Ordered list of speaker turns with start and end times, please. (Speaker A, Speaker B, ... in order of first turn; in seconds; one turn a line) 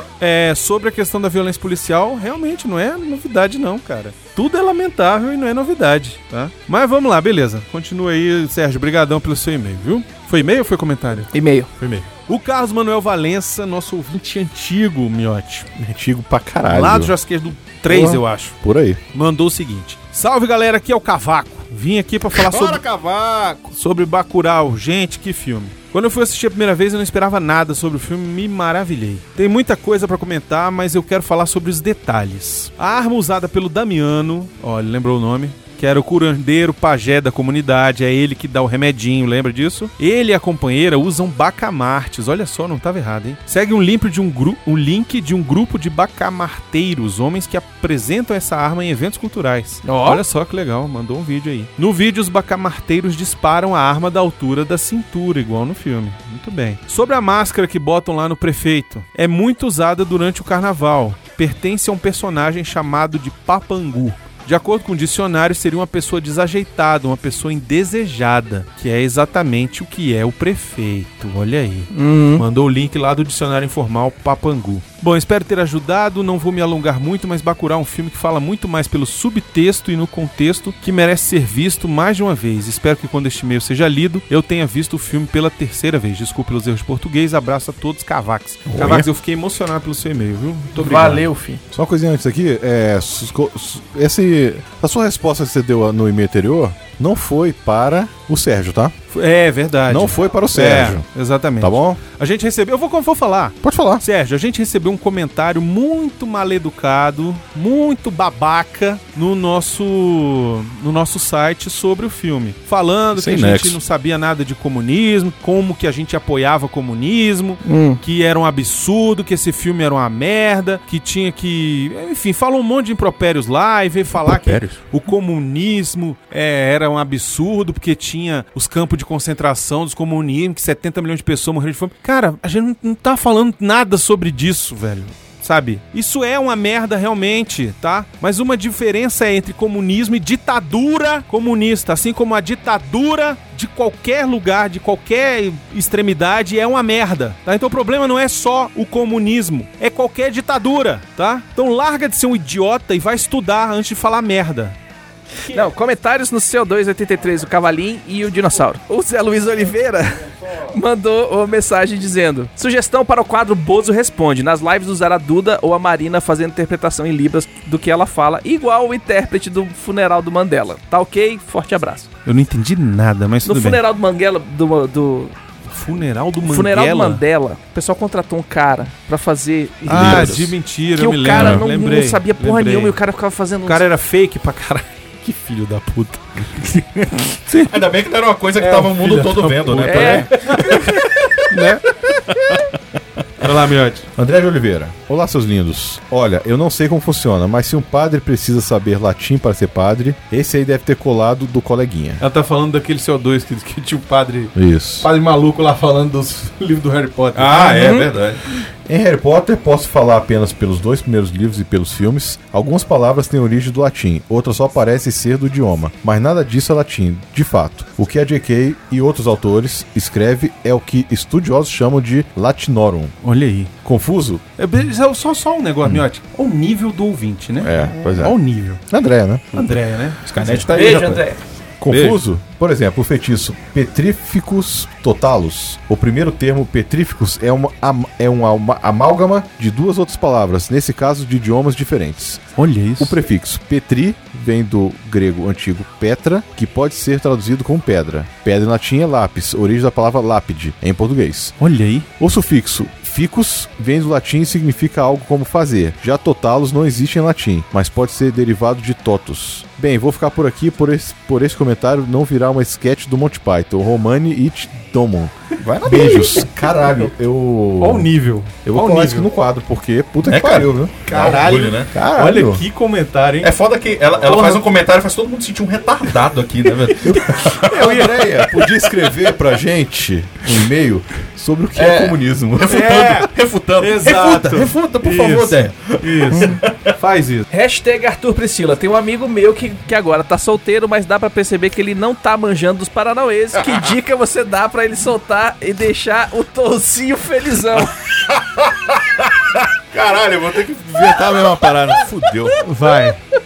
Speaker A: 0.2-15.7
Speaker B: 11.3-11.7
Speaker C: 15.8-17.1
Speaker A: 16.6-18.6
Speaker C: 17.9-19.0
Speaker A: 19.1-22.9
Speaker D: 22.5-23.6
Speaker A: 23.6-91.3
Speaker B: 49.8-50.2
Speaker B: 71.9-72.4
Speaker C: 88.7-89.1
Speaker B: 90.8-91.6
Speaker C: 91.7-99.0
Speaker A: 99.1-154.8
Speaker C: 99.9-101.0
Speaker C: 101.6-102.0
Speaker C: 103.6-104.0
Speaker D: 113.2-113.7
Speaker B: 117.6-118.0
Speaker D: 124.2-124.8
Speaker B: 155.5-172.1
Speaker A: 172.2-173.8
Speaker B: 173.4-175.3
Speaker A: 175.7-177.2
Speaker B: 176.4-183.8
Speaker A: 179.8-183.0
Speaker C: 179.9-180.4
Speaker A: 183.6-186.6
Speaker D: 186.6-186.8
Speaker D: 187.5-192.7
Speaker A: 188.6-191.8
Speaker B: 189.8-190.9
Speaker A: 193.4-194.1
Speaker C: 194.2-202.2
Speaker A: 202.2-207.9
Speaker C: 204.6-205.1
Speaker D: 207.3-208.4
Speaker B: 207.5-208.1
Speaker C: 208.8-223.1
Speaker A: 223.2-223.7
Speaker C: 223.8-224.4
Speaker A: 224.6-228.8
Speaker C: 227.6-228.3
Speaker C: 228.9-229.8
Speaker A: 229.5-230.7
Speaker D: 230.2-231.2
Speaker B: 230.7-231.4
Speaker C: 231.8-251.5
Speaker A: 242.6-243.2
Speaker A: 251.6-252.1
Speaker C: 252.2-268.1
Speaker D: 265.6-266.6
Speaker A: 267.8-269.3
Speaker C: 268.6-271.0
Speaker D: 270.2-271.9
Speaker A: 271.1-273.5
Speaker C: 271.9-272.6
Speaker D: 273.4-278.0
Speaker A: 274.2-274.6
Speaker C: 277.0-282.6
Speaker A: 277.1-278.2
Speaker D: 281.7-286.9
Speaker A: 282.6-287.4
Speaker B: 287.5-297.9
Speaker D: 298.2-302.6
Speaker A: 302.6-303.2